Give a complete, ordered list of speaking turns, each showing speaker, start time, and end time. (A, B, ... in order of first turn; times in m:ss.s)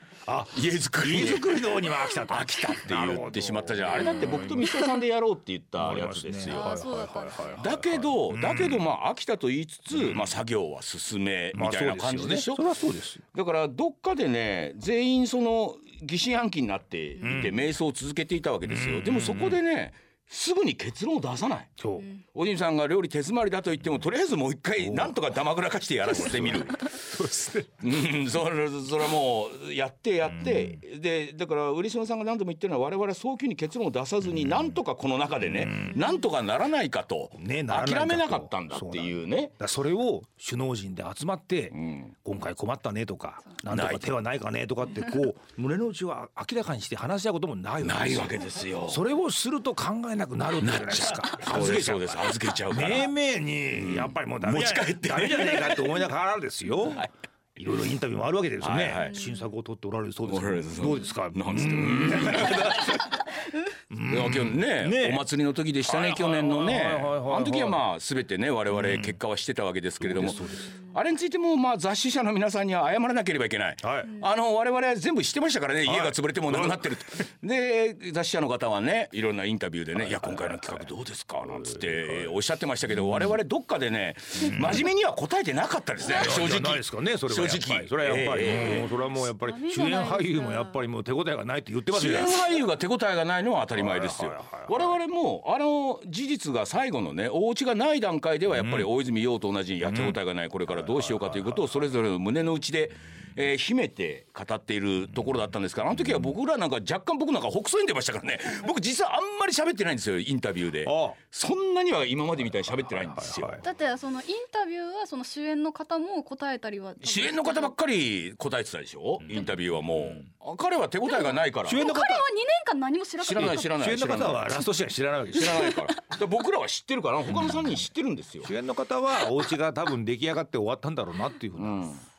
0:00.2-0:04.9 A
0:00.5-0:06.7 B
0:05.8-0:08.9 A
0:06.5-0:07.6 C
0:07.6-0:12.8 B
0:09.9-0:10.4 A
0:11.5-0:13.2 A
0:13.3-0:21.7 B
0:17.2-0:17.7 A
0:18.6-0:19.6 A
0:21.8-0:22.1 A
0:22.3-0:27.0 B
0:24.8-0:25.4 A
0:26.0-0:27.9 A
0:27.8-0:39.5 B
0:30.2-0:30.8 A
0:34.3-0:34.8 A
0:35.4-0:36.0 A
0:35.9-0:36.3 C
0:37.4-1:03.0 A
0:41.7-0:42.1 B
0:43.7-0:44.1 B
0:47.8-0:49.0 B
0:50.6-0:53.1 B
0:53.7-0:56.0 B
0:58.6-0:59.2 B
0:59.0-0:59.4 C
1:00.2-1:03.2 B
1:03.9-1:05.2 A
1:04.0-1:28.9 B
1:05.8-1:07.8 A
1:08.7-1:09.2 A
1:10.0-1:10.7 A
1:10.3-1:10.9 C
1:13.8-1:14.1 A
1:15.8-1:17.2 A
1:19.9-1:20.9 A
1:21.4-1:22.4 A
1:22.9-1:23.4 A
1:24.4-1:24.9 A
1:26.0-1:32.4 A
1:28.4-1:30.8 C
1:31.9-1:53.6 B
1:33.7-1:35.0 A
1:38.5-1:38.9 A
1:39.8-1:41.7 A
1:50.8-1:51.2 A
1:52.5-1:53.6 A
1:53.6-1:57.7 C
1:57.0-2:01.8 B
1:59.2-2:00.2 A
2:01.0-2:03.7 C
2:01.6-2:02.2 A
2:03.2-2:05.7 A
2:03.2-2:04.6 B
2:05.3-2:08.5 B
2:05.4-2:05.8 C
2:07.3-2:07.7 A
2:08.4-2:11.9 A
2:11.6-2:12.0 B